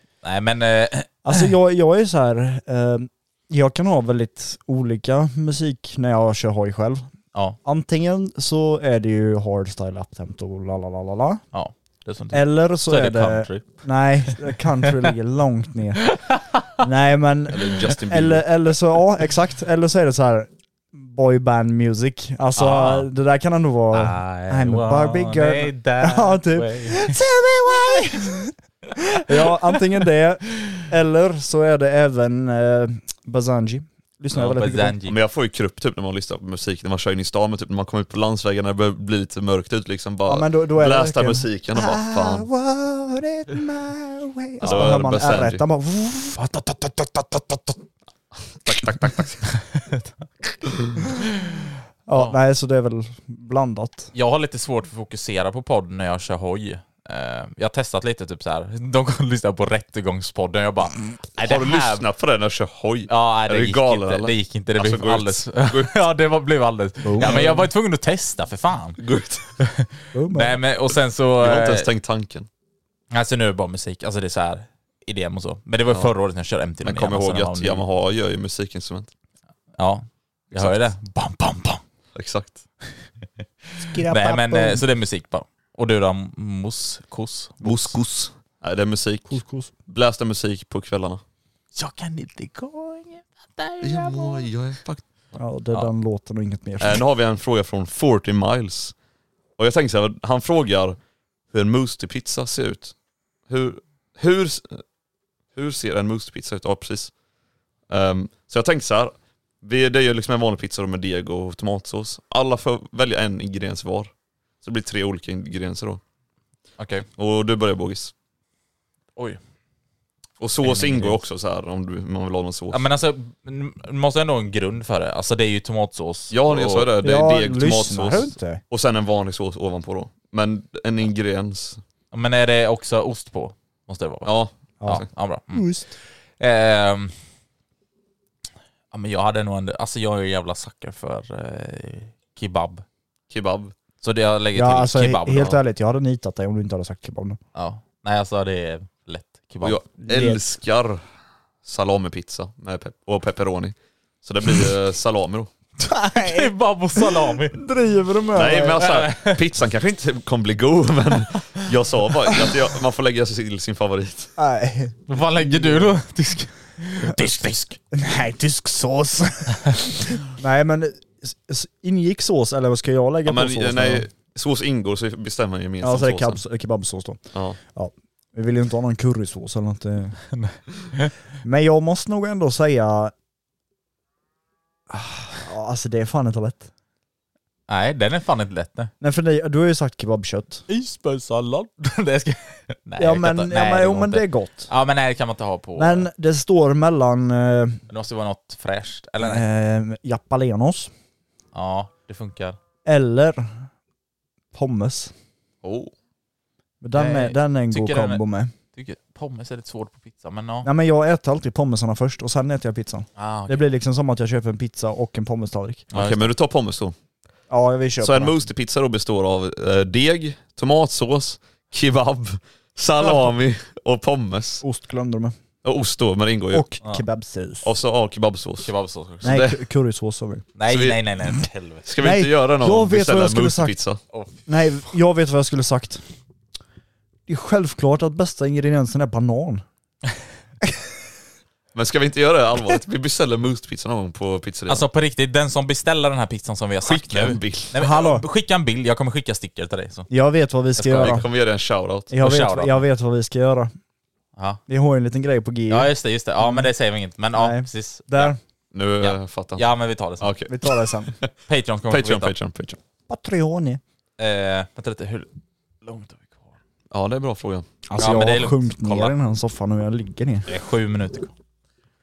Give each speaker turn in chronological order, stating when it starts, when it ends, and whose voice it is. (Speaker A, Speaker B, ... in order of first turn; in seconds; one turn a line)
Speaker A: 0.2-1.4
Speaker B: 1.2-7.1
Speaker B: 7.7-11.4
Speaker A: 11.5-15.0
Speaker B: 12.3-16.2
Speaker A: 16.1-16.6
Speaker B: 16.8-28.5
Speaker C: 17.5-18.5
Speaker A: 22.6-23.1
Speaker A: 23.9-27.2
Speaker B: 29.1-35.0
Speaker A: 34.3-35.2
Speaker C: 35.1-42.5
Speaker B: 40.3-47.6
Speaker C: 44.6-45.6
Speaker A: 44.6-44.9
Speaker C: 48.5-49.5
Speaker A: 49.7-50.1
Speaker B: 52.1-54.1
Speaker A: 54.1-62.0
Speaker C: 61.4-66.0
Speaker A: 63.1-69.0
Speaker B: 67.0-67.7
Speaker C: 69.0-69.5
Speaker A: 69.6-71.9
Speaker B: 70.1-70.6
Speaker C: 71.4-72.5
Speaker A: 73.1-77.8
Speaker C: 76.8-79.1
Speaker A: 79.8-81.8
Speaker C: 80.5-80.8
Speaker C: 82.2-82.6
Speaker B: 83.8-84.8
Speaker A: 83.8-88.0
Speaker C: 87.6-91.2
Speaker B: 89.3-89.7
Speaker A: 91.7-94.5
Speaker C: 93.8-95.0
Speaker B: 95.3-97.0
Speaker C: 96.8-99.0
Speaker C: 99.6-101.0
Speaker C: 101.5-103.0
Speaker C: 103.5-104.8
Speaker C: 105.5-107.1
Speaker C: 107.9-114.1
Speaker C: 114.6-116.0
Speaker A: 116.8-117.1
Speaker C: 117.2-118.1
Speaker C: 120.4-122.9
Speaker A: 120.6-121.2
Speaker A: 122.7-126.9
Speaker C: 126.3-131.8
Speaker B: 127.0-128.6
Speaker A: 132.1-134.3
Speaker C: 134.2-135.0
Speaker B: 134.8-135.9
Speaker A: 134.9-137.2
Speaker A: 138.9-142.8
Speaker C: 143.3-143.7
Speaker A: 144.0-145.6
Speaker B: 144.6-147.4
Speaker A: 147.6-149.8
Speaker C: 149.6-151.0
Speaker B: 150.0-150.4
Speaker C: 151.6-155.5
Speaker B: 155.8-158.8
Speaker A: 156.2-157.6
Speaker C: 158.3-164.3
Speaker A: 158.8-159.4
Speaker B: 164.4-166.0
Speaker A: 165.1-167.8
Speaker B: 167.1-167.3
Speaker B: 167.9-174.1
Speaker C: 173.2-176.4
Speaker B: 175.8-180.2
Speaker A: 180.3-181.1
Speaker B: 181.4-183.1
Speaker B: 184.9-186.7
Speaker A: 187.7-188.9
Speaker B: 189.0-190.7
Speaker A: 190.7-196.1
Speaker B: 193.0-194.7
Speaker B: 195.8-197.8
Speaker A: 197.9-199.4
Speaker B: 199.2-200.9
Speaker A: 201.5-202.6
Speaker B: 202.9-203.7
Speaker B: 204.5-205.1
Speaker C: 205.6-205.9
Speaker B: 206.8-208.5
Speaker A: 206.9-208.2
Speaker A: 208.8-210.7
Speaker B: 210.6-215.9
Speaker A: 213.2-213.6
Speaker A: 215.9-216.3
Speaker C: 215.9-216.9
Speaker B: 217.5-218.4
Speaker C: 218.0-224.6
Speaker B: 223.0-223.3
Speaker B: 224.6-225.3
Speaker C: 225.6-226.6
Speaker B: 226.5-227.7
Speaker C: 227.6-229.6
Speaker A: 228.6-229.4
Speaker B: 229.2-230.5
Speaker A: 230.6-231.9
Speaker C: 230.7-231.0
Speaker C: 231.9-234.0
Speaker B: 232.0-233.8
Speaker A: 234.1-234.5
Speaker B: 234.5-236.0
Speaker B: 237.3-239.6
Speaker C: 241.8-244.8
Speaker A: 244.7-250.1
Speaker C: 246.8-247.8
Speaker B: 247.8-248.3
Speaker B: 250.1-251.3
Speaker A: 250.8-251.2
Speaker C: 251.0-252.1
Speaker B: 252.1-253.7
Speaker A: 252.2-252.8
Speaker B: 254.7-256.7
Speaker A: 255.7-258.4
Speaker B: 257.3-258.4
Speaker C: 258.7-259.7
Speaker A: 259.0-260.5
Speaker C: 260.2-260.5
Speaker B: 260.5-261.1
Speaker A: 261.5-262.3
Speaker C: 261.9-262.8
Speaker B: 263.1-263.8
Speaker A: 264.2-265.3
Speaker A: 265.8-266.4
Speaker C: 266.9-267.6
Speaker B: 267.9-270.5
Speaker A: 268.0-269.1
Speaker A: 270.5-271.3